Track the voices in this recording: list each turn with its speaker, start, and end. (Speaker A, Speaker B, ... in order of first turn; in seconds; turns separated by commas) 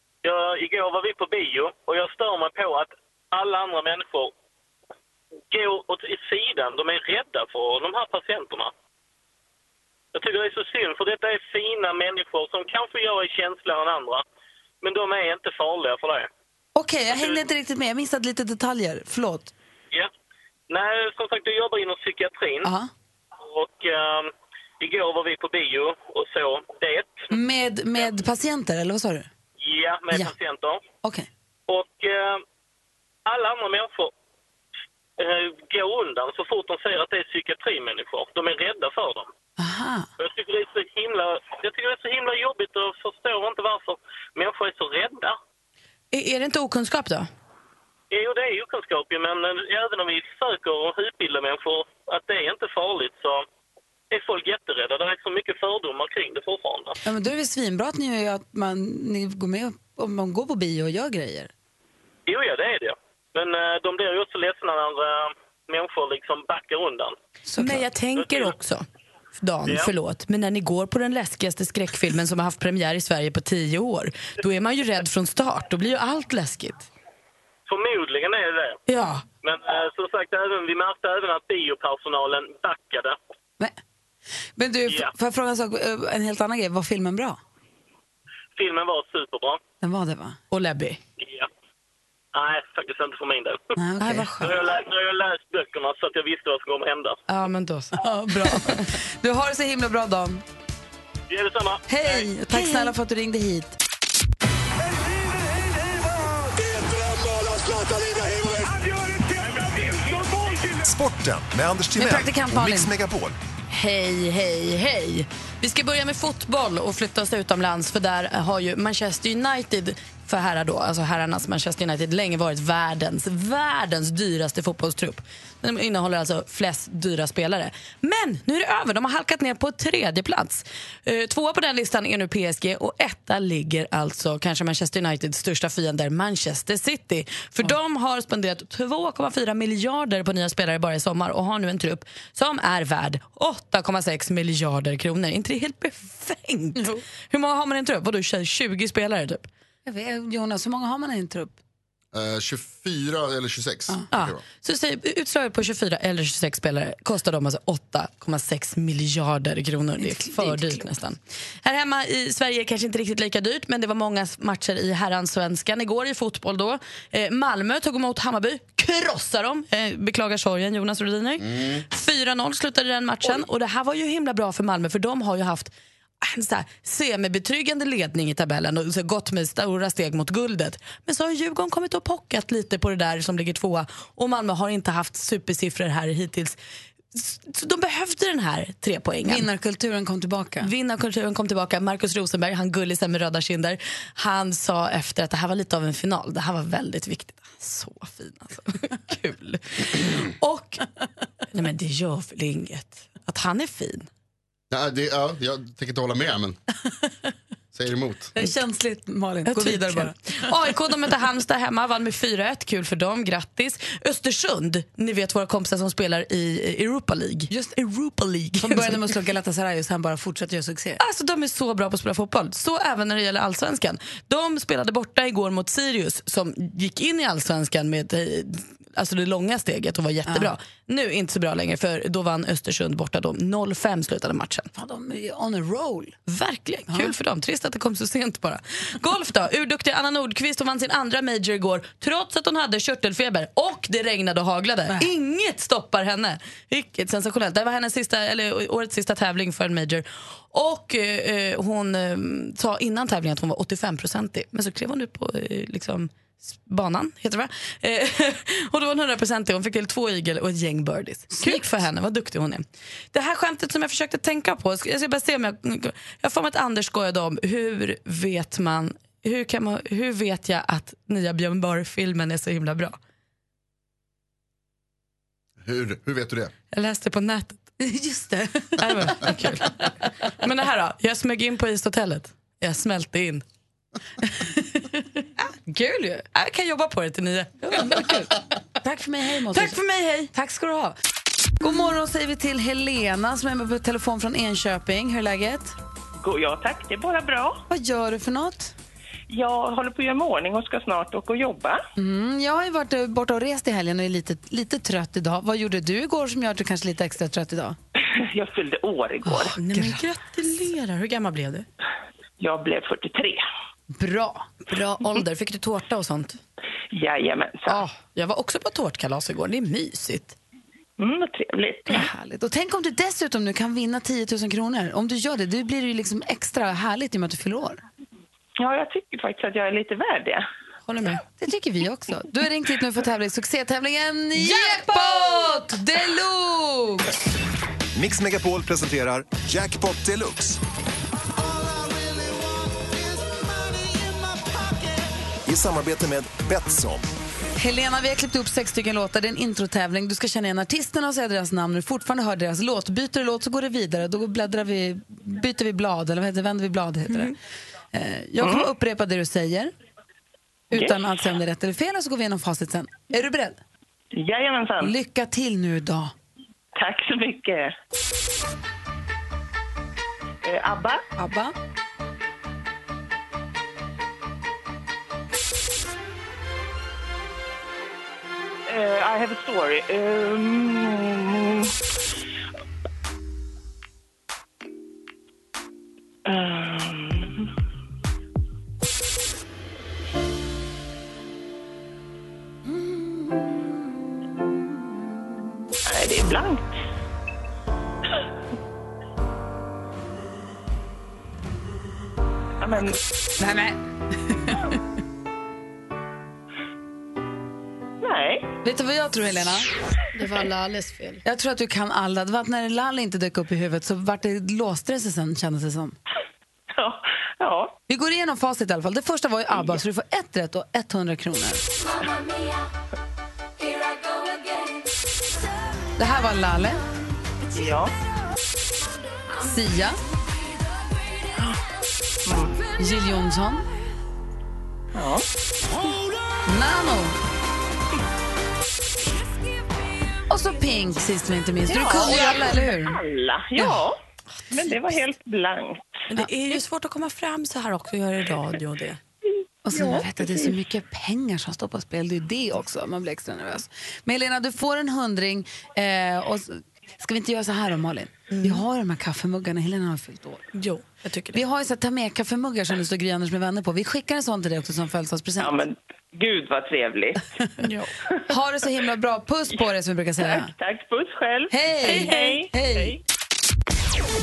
Speaker A: 0.2-4.3, Speaker A: 5.5-8.7, Speaker A: 10.1-14.2, Speaker A: 14.8-16.3, Speaker B: 16.8-19.5, Speaker A: 17.1-17.4, Speaker A: 20.7-22.7, Speaker B: 22.6-22.9, Speaker A: 23.4-27.3, Speaker B: 27.3-29.3, Speaker A: 29.6-30.8, Speaker A: 31.7-32.4, Speaker A: 33.3-34.1, Speaker A: 35.2-39.3, Speaker B: 39.6-40.1, Speaker A: 40.2-45.4, Speaker C: 46.1-47.3, Speaker A: 48.1-53.5, Speaker A: 54.1-57.0, Speaker B: 57.0-61.5, Speaker A: 62.3-67.2, Speaker B: 67.5-67.9, Speaker C: 67.6-68.8, Speaker A: 68.2-68.5, Speaker C: 69.4-76.9, Speaker A: 77.7-78.8, Speaker C: 78.9-79.2, Speaker A: 79.4-83.2, Speaker B: 84.6-87.4, Speaker A: 88.6-89.6, Speaker B: 89.8-90.4, Speaker C: 90.5-91.0, Speaker A: 91.2-91.5, Speaker A: 92.3-93.6, Speaker B: 93.8-94.5, Speaker C: 94.0-94.3, Speaker A: 94.4-97.2, Speaker C: 97.3-98.8, Speaker B: 97.9-100.4, Speaker A: 101.3-102.3, Speaker B: 101.9-103.8, Speaker C: 102.5-102.9, Speaker D: 107.3-108.2, Speaker D: 110.7-113.4, Speaker B: 112.0-112.9, Speaker C: 113.7-149.5, Speaker B: 149.9-151.6, Speaker E: 152.1-154.4, Speaker C: 154.1-186.6, Speaker B: 160.0-160.8, Speaker E: 171.4-171.9, Speaker C: 187.1-189.5, Speaker B: 189.2-190.7, Speaker C: 190.6-200.8, Speaker C: 201.5-204.1, Speaker E: 204.7-206.6, Speaker E: 207.7-208.3, Speaker B: 208.4-210.4, Speaker C: 209.5-219.1, Speaker B: 217.5-217.8, Speaker B: 218.6-221.0, Speaker C: 221.0-234.7, Speaker B: 230.3-230.5, Speaker B: 234.7-236.2, Speaker C: 236.3-273.0, Speaker B: 261.3-261.6, Speaker E: 275.6-276.5, Speaker C: 276.7-277.6, Speaker B: 277.8-279.3, Speaker C: 278.8-283.4, Speaker B: 284.2-285.1, Speaker B: 285.7-286.2, Speaker C: 286.2-288.1, Speaker B: 287.7-289.8, Speaker C: 289.5-290.3, Speaker B: 290.3-291.0, Speaker B: 291.6-295.7, Speaker F: 296.2-297.6, Speaker B: 297.7-298.7, Speaker F: 299.3-301.8, Speaker B: 302.0-307.8, Speaker F: 308.0-309.6, Speaker B: 309.3-310.0, Speaker C: 309.6-311.6, Speaker F: 312.4-313.4, Speaker B: 313.9-314.5, Speaker C: 314.7-316.4, Speaker F: 316.9-317.8, Speaker C: 317.7-320.4, Speaker F: 321.0-322.1, Speaker B: 321.9-327.8, Speaker F: 328.6-330.4, Speaker C: 330.9-331.2, Speaker B: 331.4-337.1, Speaker D: 337.9-340.6, Speaker D: 341.4-347.1, Speaker B: 347.6-357.4, Speaker B: 357.9-359.7, Speaker F: 358.4-358.7, Speaker B: 360.7-363.6, Speaker F: 364.1-364.9, Speaker B: 364.8-366.1, Speaker F: 366.8-367.7, Speaker F: 370.4-371.0, Speaker B: 371.2-371.5, Speaker F: 378.7-381.8, Speaker F: 386.2-387.5, Speaker F: 395.9-396.7, Speaker F: 402.6-403.0, Speaker B: 403.4-404.8, Speaker F: 408.0-408.5, Speaker B: 408.6-409.7, Speaker C: 410.1-411.2, Speaker B: 411.2-416.0, Speaker F: 416.7-417.8, Speaker B: 417.9-421.6, Speaker B: 426.0-426.8, Speaker F: 427.5-427.9, Speaker B: 429.4-430.0, Speaker F: 432.2-432.6, Speaker B: 432.8-433.7, Speaker F: 434.9-435.2, Speaker B: 436.5-437.2, Speaker B: 440.3-443.0, Speaker F: 441.7-443.9, Speaker F: 444.5-445.9, Speaker C: 446.1-449.0, Speaker B: 449.7-460.4, Speaker F: 449.7-450.5, Speaker C: 458.3-458.6, Speaker C: 460.5-461.4, Speaker B: 461.3-465.6, Speaker F: 465.4-467.3, Speaker C: 467.6-467.9, Speaker B: 468.3-470.5, Speaker F: 470.2-473.0, Speaker B: 471.5-473.0, Speaker C: 471.9-472.4